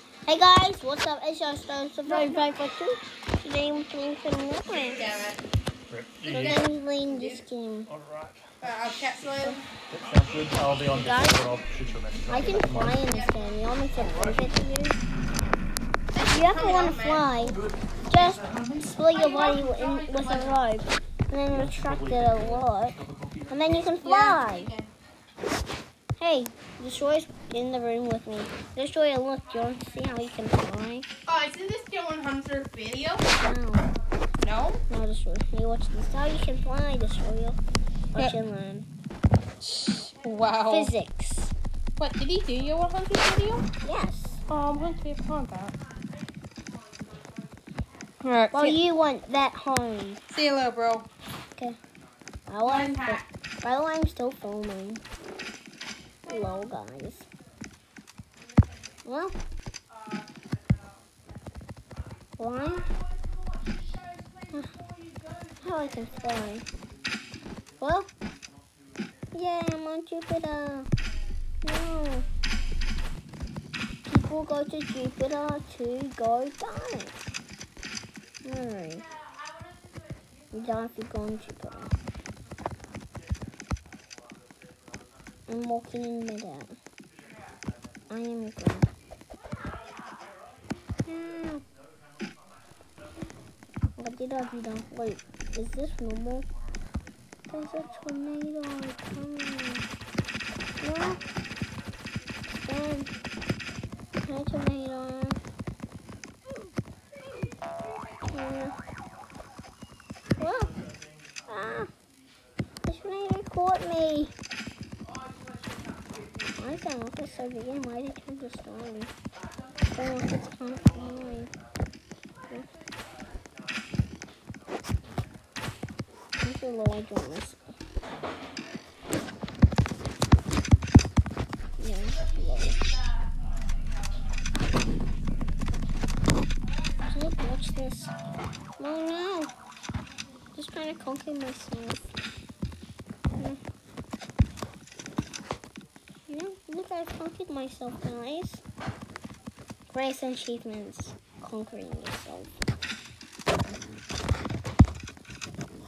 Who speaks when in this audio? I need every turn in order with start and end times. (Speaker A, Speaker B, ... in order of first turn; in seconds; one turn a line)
Speaker A: 0.2-5.1
Speaker B: 2.0-2.4
Speaker B: 4.7-5.4
Speaker C: 5.9-6.6
Speaker B: 6.2-7.4
Speaker A: 6.3-7.9
Speaker C: 7.9-8.5
Speaker B: 8.6-9.7
Speaker C: 9.9-13.0
Speaker A: 10.8-11.5
Speaker A: 12.2-15.1
Speaker B: 13.1-13.5
Speaker B: 16.1-17.5
Speaker A: 16.3-24.7
Speaker B: 19.1-20.6
Speaker C: 21.5-23.7
Speaker B: 24.0-24.9
Speaker A: 26.2-31.1
Speaker B: 31.2-33.2
Speaker A: 33.3-33.9
Speaker B: 34.4-34.8
Speaker A: 34.9-37.6
Speaker A: 38.1-38.9
Speaker B: 39.6-40.9
Speaker A: 40.6-41.5
Speaker B: 42.0-43.7
Speaker A: 43.8-44.4
Speaker B: 44.5-45.8
Speaker B: 48.2-48.8
Speaker A: 48.5-50.2
Speaker B: 50.3-51.1
Speaker A: 52.5-55.0
Speaker B: 52.6-53.2
Speaker A: 56.2-57.3
Speaker A: 59.0-59.3
Speaker A: 62.4-62.9
Speaker A: 65.6-66.6
Speaker A: 67.8-68.1
Speaker A: 69.3-70.9
Speaker A: 71.6-72.2
Speaker A: 74.0-77.2
Speaker A: 78.4-79.1
Speaker A: 80.5-81.9
Speaker A: 85.5-86.8
Speaker A: 88.1-88.9
Speaker A: 91.0-91.6
Speaker A: 94.0-96.5
Speaker A: 97.5-99.8
Speaker A: 100.8-101.2
Speaker A: 102.5-103.1
Speaker A: 104.2-105.4
Speaker A: 108.3-108.8
Speaker A: 110.4-110.8
Speaker A: 111.5-111.9
Speaker A: 112.8-114.3
Speaker A: 116.4-119.1
Speaker A: 119.8-121.5
Speaker A: 126.4-127.6
Speaker A: 131.8-132.8
Speaker A: 137.0-138.1
Speaker A: 138.8-139.5
Speaker A: 140.5-142.0
Speaker A: 146.3-148.6
Speaker A: 149.9-152.6
Speaker A: 153.7-154.0